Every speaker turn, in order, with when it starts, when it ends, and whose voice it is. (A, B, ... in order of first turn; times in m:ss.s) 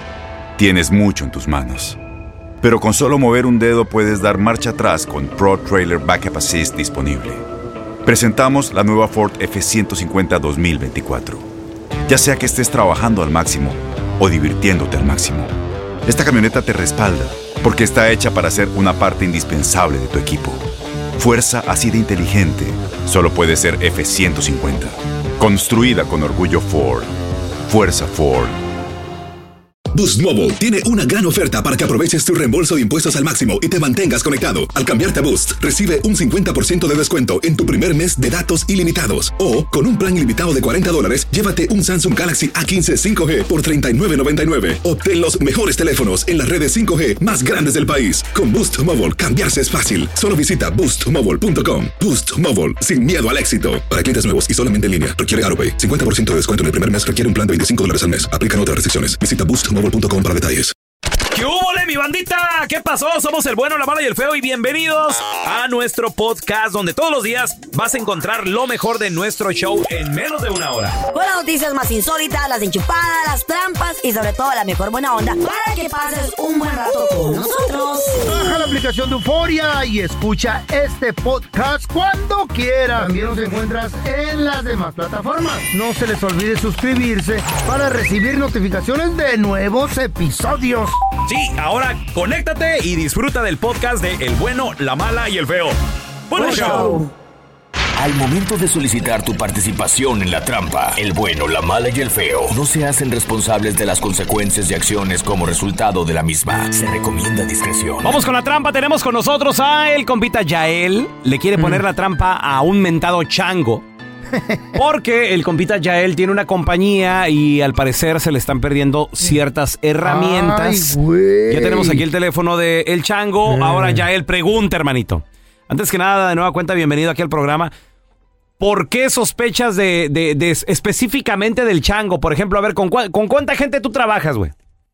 0:00.6-0:02.0 A
0:02.6-0:07.4 A
0:08.0-0:11.5 A
0:12.1-0:15.5 A
0:16.0-0:27.1 A
0:27.6-0:28.6 A
0:29.9-1:00.7 B
1:01.3-1:11.0 C
1:11.1-1:18.4 D
1:18.2-1:31.0 E
1:31.3-1:35.8 C
1:36.3-1:37.0 C
1:36.4-1:37.1 D
1:36.4-1:37.0 E
1:38.0-1:48.2 F
1:48.0-1:53.8 C
1:54.3-1:54.8 E
1:54.8-2:01.0 C
2:00.0-2:02.0 E
2:01.5-2:07.7 C
2:03.5-2:04.1 E
2:08.6-2:14.5 C